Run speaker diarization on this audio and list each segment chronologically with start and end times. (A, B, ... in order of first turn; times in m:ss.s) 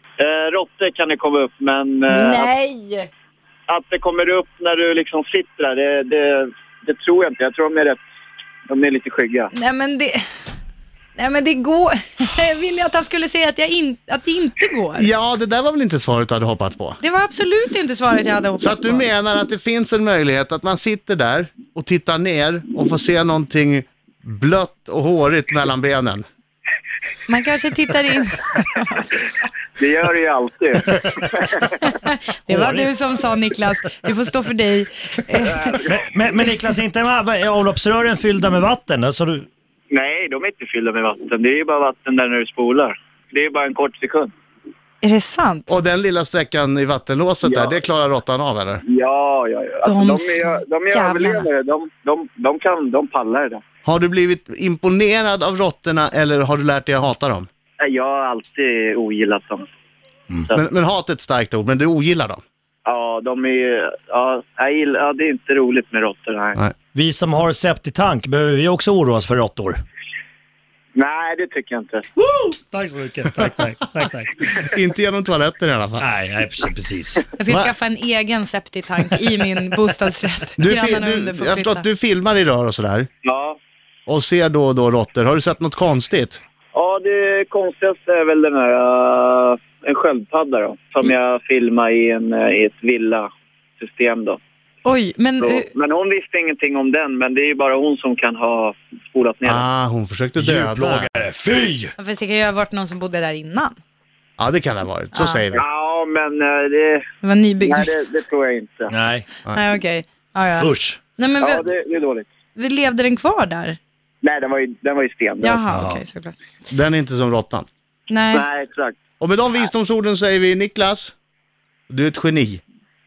0:00.2-0:02.5 A
0:02.1-0:03.1 B
0:03.7-0:08.0 A
0:08.7-0:09.5 A
0:09.5-0:10.2 B
0:11.2-0:15.1 B
0:15.0-0:17.0 C
0:17.0-0:19.1 B
0:18.6-0:26.2 C
0:27.3-0:29.1 B
0:29.8-0:31.7 A
0:31.8-0:35.8 B
0:32.5-0:32.9 D
0:35.4-0:35.9 A
0:35.8-0:39.5 D
0:39.9-0:44.3 A
0:45.0-0:45.7 B
0:45.7-0:48.8 C
0:47.4-0:47.8 A
0:48.8-0:53.6 A
0:49.8-0:51.5 B
0:53.8-0:57.5 C
0:57.8-0:59.6 A
1:00.5-1:02.4 C
1:02.8-1:06.6 A
1:06.9-1:09.8 D
1:10.9-1:12.0 A
1:12.2-1:14.6 D
1:14.6-1:16.1 C
1:16.0-1:17.2 D
1:17.4-1:21.8 B
1:20.6-1:23.1 C
1:23.2-1:23.6 A
1:24.1-1:26.4 C
1:26.7-1:33.3 A
1:33.8-1:34.4 A
1:34.8-1:35.7 B
1:35.4-1:39.6 A
1:39.4-1:41.1 C
1:40.4-1:41.9 D
1:42.0-1:43.8 B
1:44.4-1:45.6 C
1:45.1-1:45.4 B
1:45.6-1:47.1 A
1:47.2-1:47.9 B
1:47.6-1:48.9 A
1:48.9-1:49.2 D
1:49.5-1:51.7 B
1:50.6-1:51.0 D
1:51.4-1:52.3 A
1:52.6-1:53.8 B
1:54.2-1:55.6 A
1:55.4-1:56.3 B
1:55.7-1:56.0 D
1:56.7-1:57.6 C
1:58.1-1:58.4 B
1:58.3-1:59.0 A
1:59.2-2:01.1 C
2:01.9-2:02.6 C